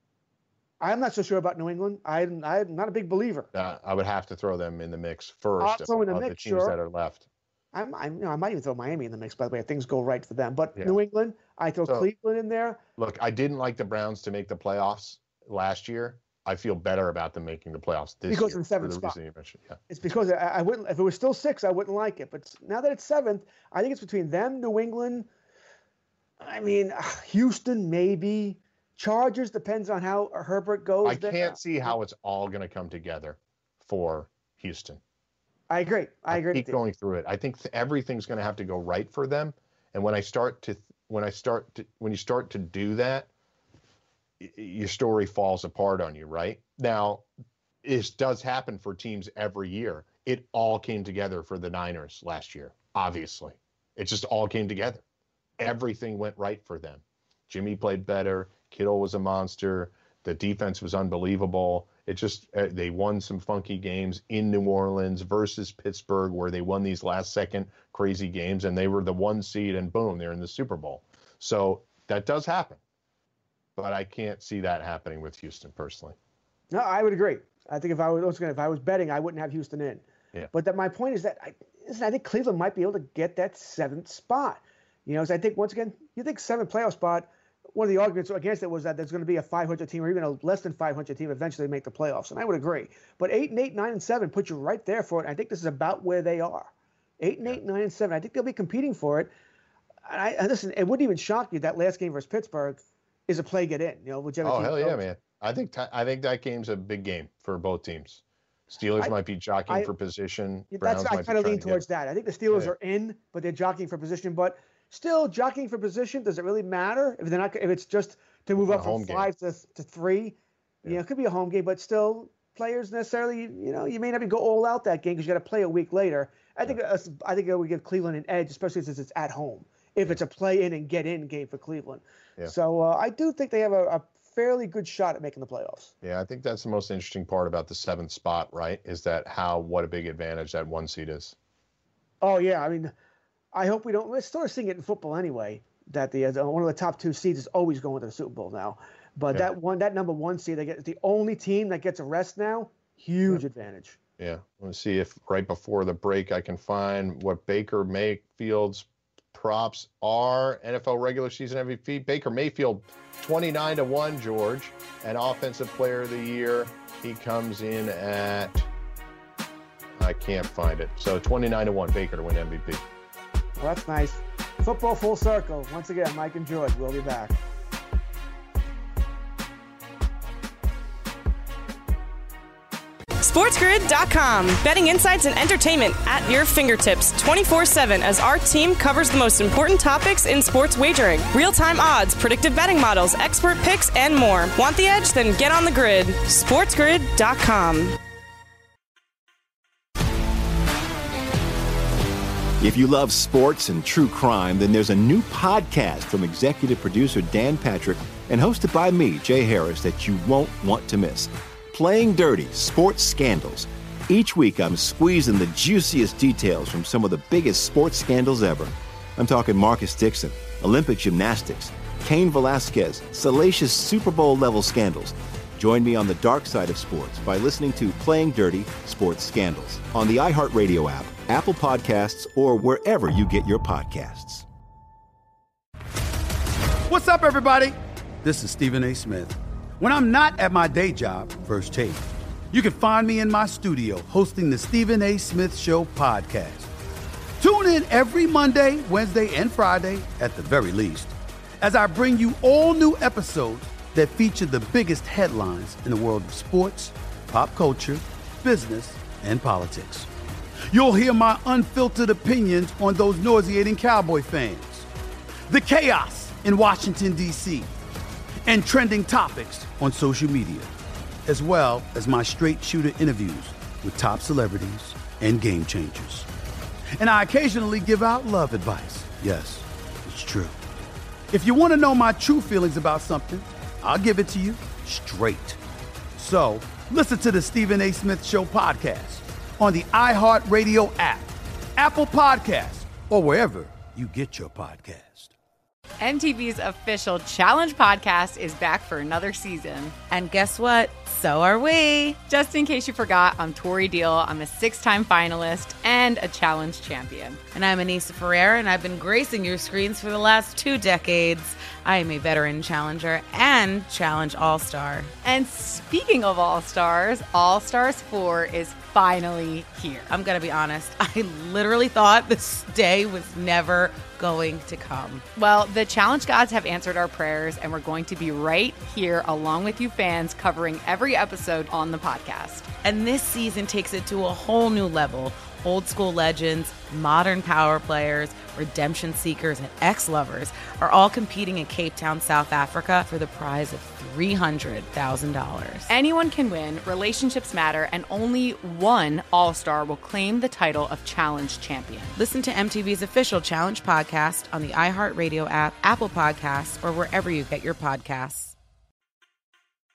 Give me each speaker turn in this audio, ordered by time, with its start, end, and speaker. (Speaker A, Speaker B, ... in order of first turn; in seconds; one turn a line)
Speaker A: 0.8-3.5
Speaker B: 3.5-7.2
Speaker A: 5.6-6.8
Speaker A: 7.7-12.8
Speaker B: 13.0-20.1
Speaker A: 18.3-19.2
Speaker A: 19.9-25.3
Speaker A: 26.4-31.9
Speaker B: 31.0-35.0
Speaker A: 35.7-36.8
Speaker B: 36.3-43.3
Speaker B: 44.4-47.2
Speaker B: 47.8-55.0
Speaker B: 55.6-72.8
Speaker B: 73.8-76.2
Speaker A: 76.7-99.3
Speaker A: 100.1-105.0
Speaker B: 104.4-111.8
Speaker A: 110.7-135.9
Speaker B: 118.7-119.3
Speaker B: 136.0-141.3
Speaker A: 142.2-142.9
Speaker A: 143.5-154.0
Speaker B: 154.2-168.7
Speaker B: 170.0-172.8
Speaker A: 173.6-177.4
Speaker C: 183.2-198.0
Speaker D: 202.6-234.5
Speaker E: 236.9-246.7
Speaker E: 247.4-260.1
Speaker E: 260.7-264.9
Speaker E: 265.5-267.7
Speaker E: 268.4-270.7
Speaker E: 271.3-276.3
Speaker E: 277.0-280.6
Speaker E: 281.3-285.6
Speaker E: 286.2-295.3
Speaker F: 296.0-299.9
Speaker G: 300.1-302.2
Speaker F: 302.3-307.4
Speaker G: 307.5-315.1
Speaker F: 315.2-320.1
Speaker G: 320.1-325.2
Speaker F: 325.4-332.7
Speaker G: 332.8-345.9
Speaker F: 345.9-352.2
Speaker G: 352.2-358.5